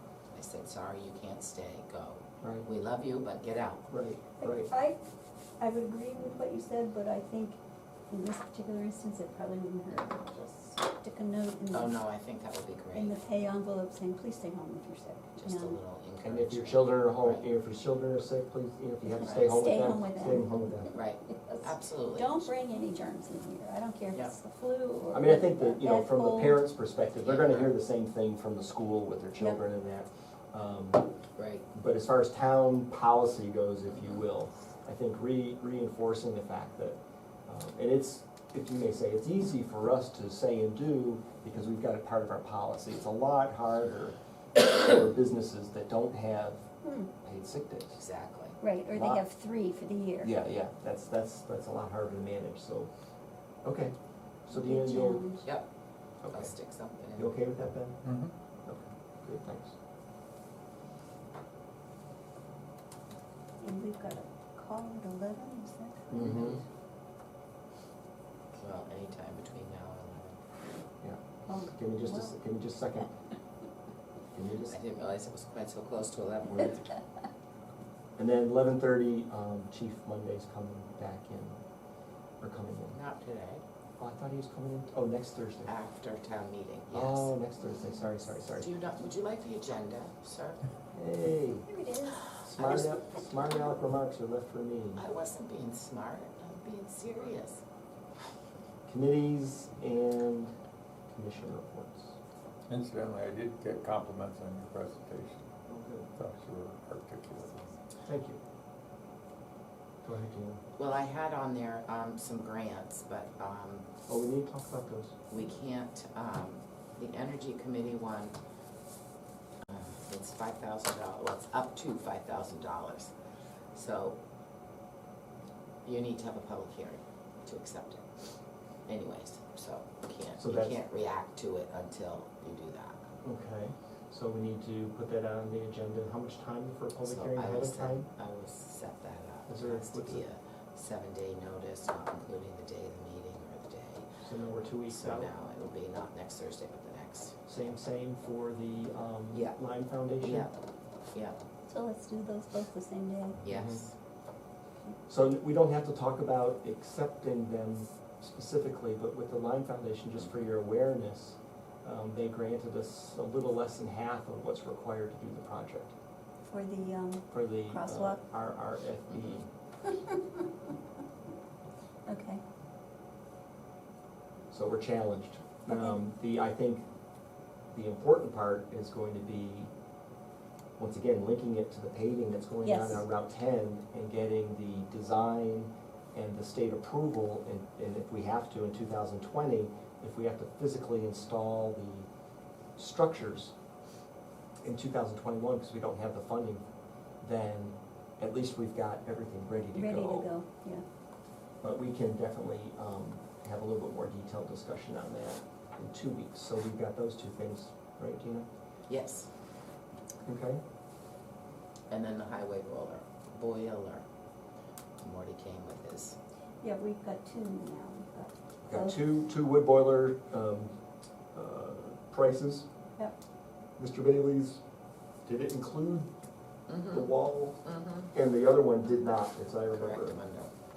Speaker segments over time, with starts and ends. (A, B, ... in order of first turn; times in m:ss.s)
0:00.3-0:03.9 A
0:02.4-0:02.7 B
0:03.9-0:04.7 B
0:04.4-0:05.0 C
0:05.6-0:07.6 C
0:08.1-0:10.2 C
0:09.9-0:10.7 A
0:10.8-0:11.9 C
0:11.7-0:13.2 A
0:12.9-0:15.8 C
0:15.4-0:17.4 A
0:16.2-0:20.9 B
0:19.0-0:26.6 C
0:19.2-0:19.8 A
0:20.9-0:22.5 A
0:25.1-0:31.0 B
0:27.2-0:27.7 A
0:31.4-0:31.6 A
0:31.7-0:46.7 B
0:46.8-0:47.1 C
0:47.2-0:48.0 B
0:47.9-0:48.6 A
0:48.6-0:50.3 C
0:48.9-0:49.2 B
0:50.2-0:52.9 B
0:53.6-0:53.9 B
0:54.4-0:55.2 B
0:54.5-0:55.4 C
0:56.2-0:56.5 B
0:56.3-0:57.3 A
0:57.1-0:58.0 B
0:58.0-0:58.3 D
0:58.6-0:59.7 B
1:03.6-1:06.5 C
1:06.1-1:06.6 B
1:06.1-1:06.6 A
1:08.5-1:10.4 A
1:11.0-1:13.1 B
1:11.5-1:12.3 C
1:14.3-1:14.8 B
1:14.7-1:16.9 A
1:18.2-1:21.6 B
1:22.4-1:23.0 B
1:22.9-1:23.6 A
1:24.0-1:25.7 B
1:25.6-1:27.4 A
1:26.9-1:28.7 B
1:28.6-1:30.6 A
1:30.9-1:31.7 B
1:31.6-1:32.7 C
1:32.4-1:35.0 B
1:32.6-1:33.0 A
1:35.0-1:37.6 A
1:38.9-1:40.5 B
1:41.1-1:42.1 B
1:42.7-1:45.5 D
1:45.7-1:46.1 B
1:46.2-1:47.7 D
1:48.0-1:48.4 B
1:50.0-1:50.6 B
1:50.8-1:53.9 A
1:54.1-1:55.2 B
1:55.3-1:58.4 A
1:59.6-2:03.1 A
2:03.7-2:04.2 A
2:05.8-2:08.0 A
2:08.9-2:13.0 A
2:10.4-2:10.8 B
2:13.2-2:18.1 B
2:17.0-2:24.1 A
2:19.5-2:20.2 B
2:24.2-2:25.3 B
2:24.9-2:27.4 A
2:27.5-2:30.5 B
2:29.3-2:29.6 A
2:30.2-2:30.5 A
2:31.1-2:31.4 A
2:31.7-2:33.4 C
2:33.4-2:33.9 A
2:33.5-2:33.8 B
2:35.1-2:45.9 B
2:46.4-2:48.2 C
2:47.3-2:49.5 B
2:49.1-2:49.4 A
2:49.9-2:50.2 C
2:52.1-2:52.4 C
2:54.5-2:56.8 B
2:55.7-2:56.0 C
2:57.7-2:59.7 B
3:00.8-3:12.1 B
3:02.6-3:03.0 C
3:12.8-3:13.5 B
3:14.6-3:16.6 B
3:17.2-3:20.3 B
3:19.7-3:20.8 C
3:21.6-3:28.4 B
3:28.9-3:29.3 A
3:30.2-3:30.6 B
3:31.9-3:34.0 A
3:35.0-3:36.2 A
3:36.6-3:39.0 C
3:38.6-3:40.8 B
3:41.3-3:42.7 B
3:43.8-3:44.6 B
3:45.2-3:46.1 B
3:46.7-3:47.1 A
3:46.9-3:50.2 B
3:47.6-3:48.1 A
3:49.7-3:50.5 A